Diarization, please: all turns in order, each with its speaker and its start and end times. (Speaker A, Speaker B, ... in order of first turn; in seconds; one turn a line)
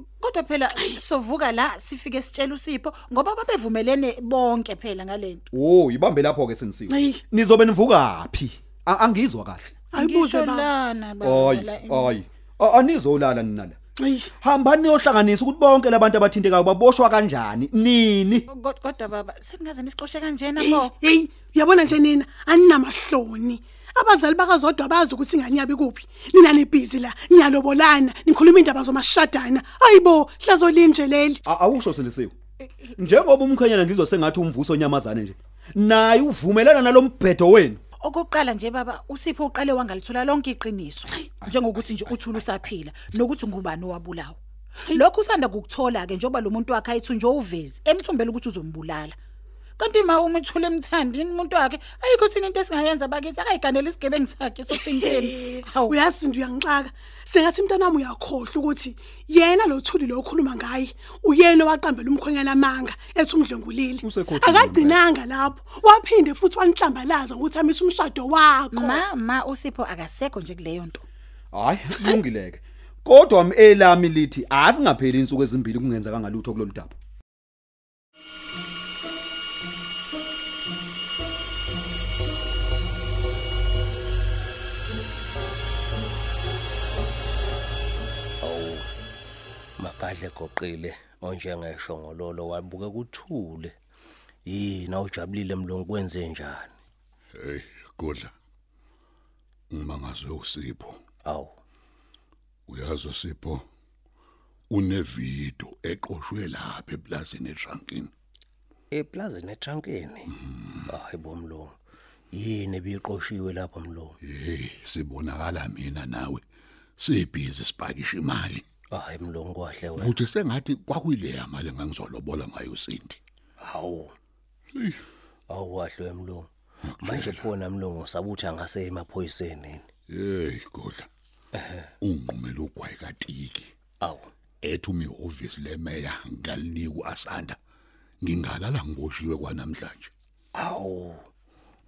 Speaker A: 0.2-5.5
Speaker B: 5.5-9.7
Speaker C: 6.9-7.2
Speaker C: 9.9-10.7
Speaker A: 9.9-12.2
Speaker B: 11.2-13.8
Speaker C: 14.0-14.3
Speaker B: 14.4-18.4
Speaker A: 18.5-20.9
Speaker C: 20.6-31.4
Speaker B: 31.5-32.3
Speaker B: 33.0-37.8
Speaker A: 38.0-44.4
Speaker A: 44.9-49.1
Speaker A: 49.8-56.0
Speaker C: 54.7-69.0
Speaker B: 64.0-65.0
Speaker A: 68.7-71.0
Speaker B: 71.5-76.9
Speaker D: 88.4-88.9
Speaker D: 89.8-93.7
Speaker D: 94.5-96.7
Speaker E: 97.3-98.3
Speaker E: 99.7-101.0
Speaker D: 101.2-101.5
Speaker E: 102.7-103.7
Speaker E: 104.7-108.1
Speaker D: 108.9-110.3
Speaker D: 110.9-111.8
Speaker D: 112.3-114.2
Speaker E: 114.2-116.4
Speaker E: 117.0-118.7
Speaker D: 118.9-120.2
Speaker E: 120.0-123.2
Speaker D: 123.6-124.1
Speaker E: 124.8-125.0
Speaker D: 125.5-126.5
Speaker E: 126.8-127.5
Speaker D: 127.0-129.9
Speaker E: 130.1-131.1
Speaker D: 131.6-131.9
Speaker E: 132.0-133.8
Speaker D: 134.0-134.3
Speaker E: 134.6-137.6
Speaker E: 138.2-140.1
Speaker D: 140.6-141.3